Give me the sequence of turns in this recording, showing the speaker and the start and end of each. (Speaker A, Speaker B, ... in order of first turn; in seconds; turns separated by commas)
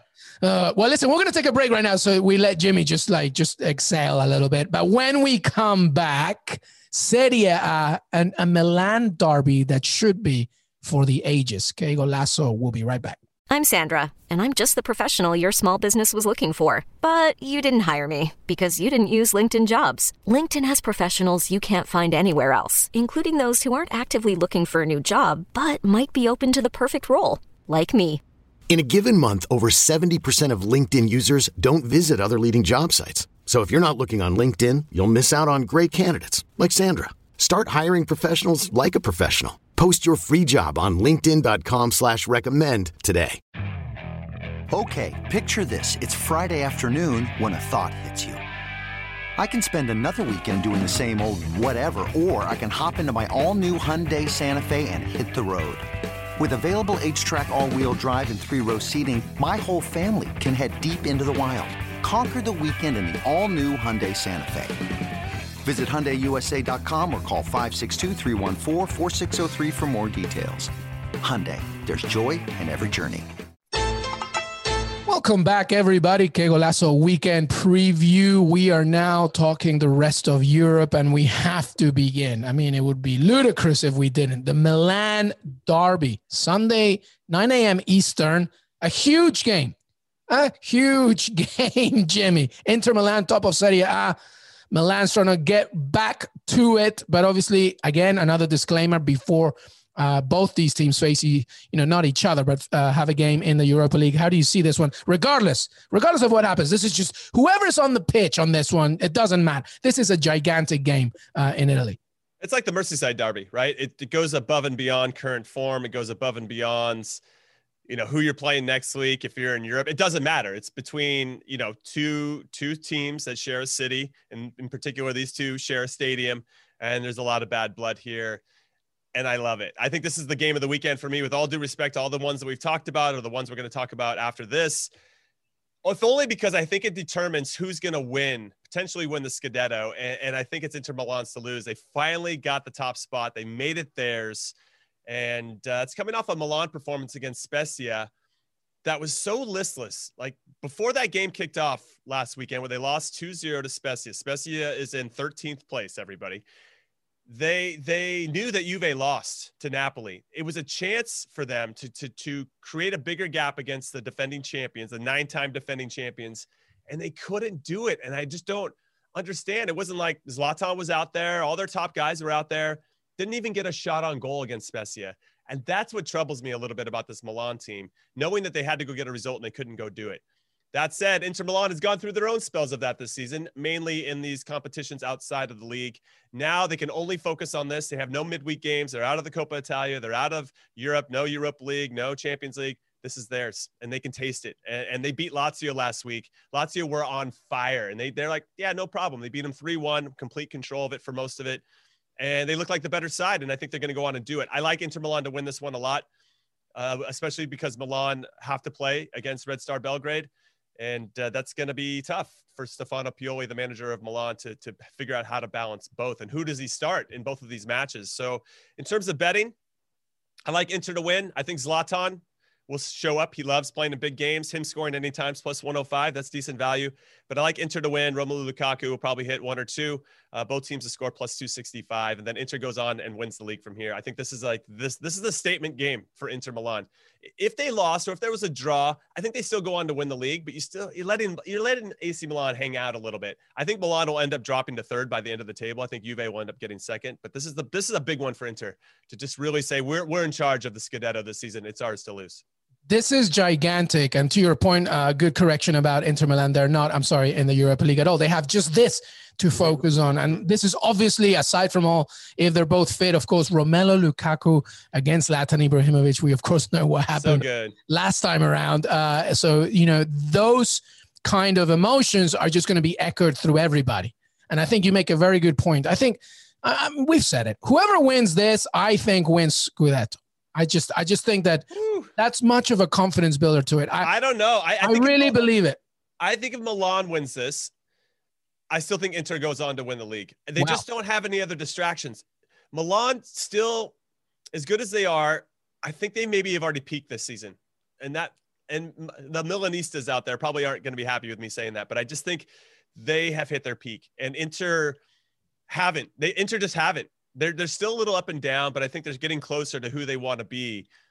Speaker A: 0.4-13.2, Speaker B: 13.5-28.2, Speaker C: 28.7-43.4, Speaker D: 44.7-48.4, Speaker D: 49.4-55.9, Speaker D: 56.4-64.8, Speaker D: 65.6-73.3, Speaker A: 75.1-89.8, Speaker A: 90.3-94.2, Speaker A: 94.7-112.0, Speaker E: 112.4-117.2, Speaker E: 117.9-128.4, Speaker E: 129.1-134.9, Speaker E: 135.8-144.5, Speaker E: 145.1-148.1, Speaker E: 148.8-156.4, Speaker E: 157.3-180.2, Speaker E: 180.7-201.6, Speaker E: 202.2-206.1, Speaker E: 206.8-219.5, Speaker E: 220.5-252.4, Speaker A: 252.9-284.1, Speaker E: 267.2-267.8, Speaker E: 281.7-282.1, Speaker E: 284.0-285.5, Speaker A: 284.8-285.8, Speaker E: 286.2-287.7, Speaker E: 288.7-293.9, Speaker A: 290.6-290.8, Speaker E: 294.5-305.0, Speaker E: 305.7-310.9